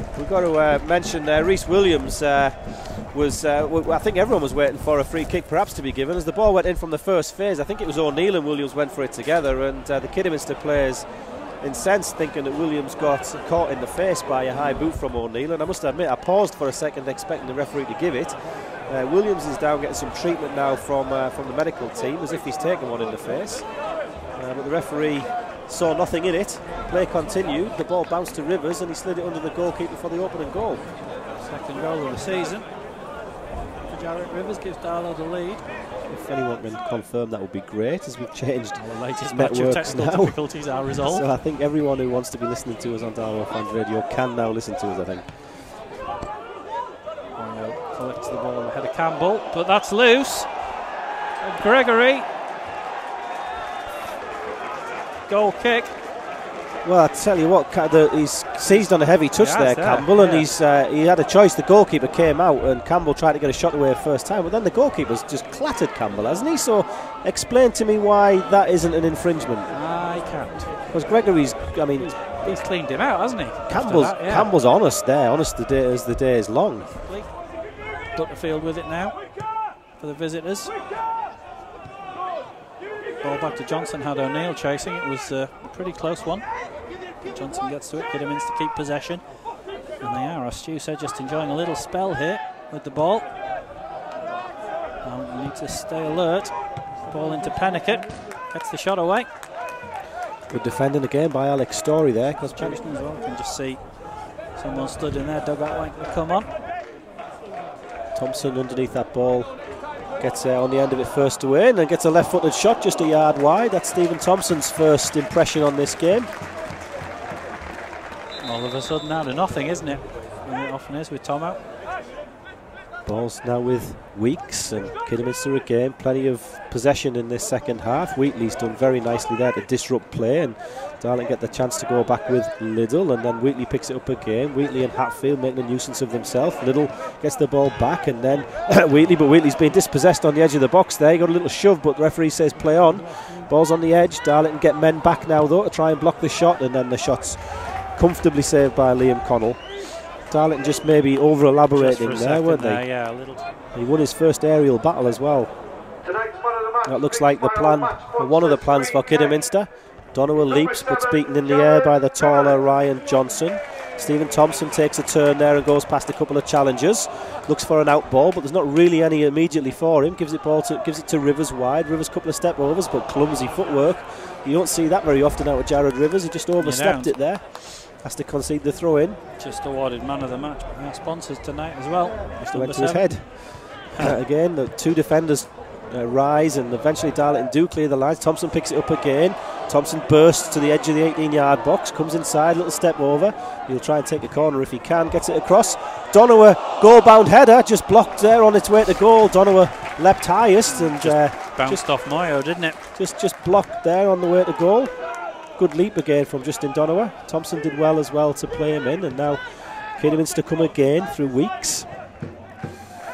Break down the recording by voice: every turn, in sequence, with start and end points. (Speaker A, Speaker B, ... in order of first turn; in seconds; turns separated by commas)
Speaker A: 0.1-30.9, Speaker B: 31.4-32.8, Speaker B: 33.9-35.7, Speaker A: 36.0-45.6, Speaker B: 38.8-41.3, Speaker B: 47.4-50.6, Speaker B: 51.4-52.3, Speaker B: 55.3-55.9, Speaker A: 56.8-69.7, Speaker B: 58.7-60.5, Speaker B: 69.7-70.8, Speaker A: 70.9-72.2, Speaker B: 72.0-74.5, Speaker A: 73.7-76.9, Speaker B: 76.8-77.3, Speaker B: 78.1-79.2, Speaker B: 80.0-80.7, Speaker B: 83.2-86.5, Speaker B: 87.2-89.4, Speaker B: 90.0-93.3, Speaker B: 95.0-99.3, Speaker A: 100.5-102.8, Speaker B: 102.5-104.0, Speaker B: 104.5-106.5, Speaker A: 108.1-109.6, Speaker A: 110.2-116.3, Speaker B: 118.4-121.6, Speaker A: 123.0-152.9, Speaker B: 151.7-153.5, Speaker A: 153.8-155.5, Speaker A: 156.8-179.2, Speaker B: 176.6-177.1, Speaker B: 179.4-184.1, Speaker A: 182.4-201.9, Speaker B: 200.7-202.8, Speaker A: 203.0-211.9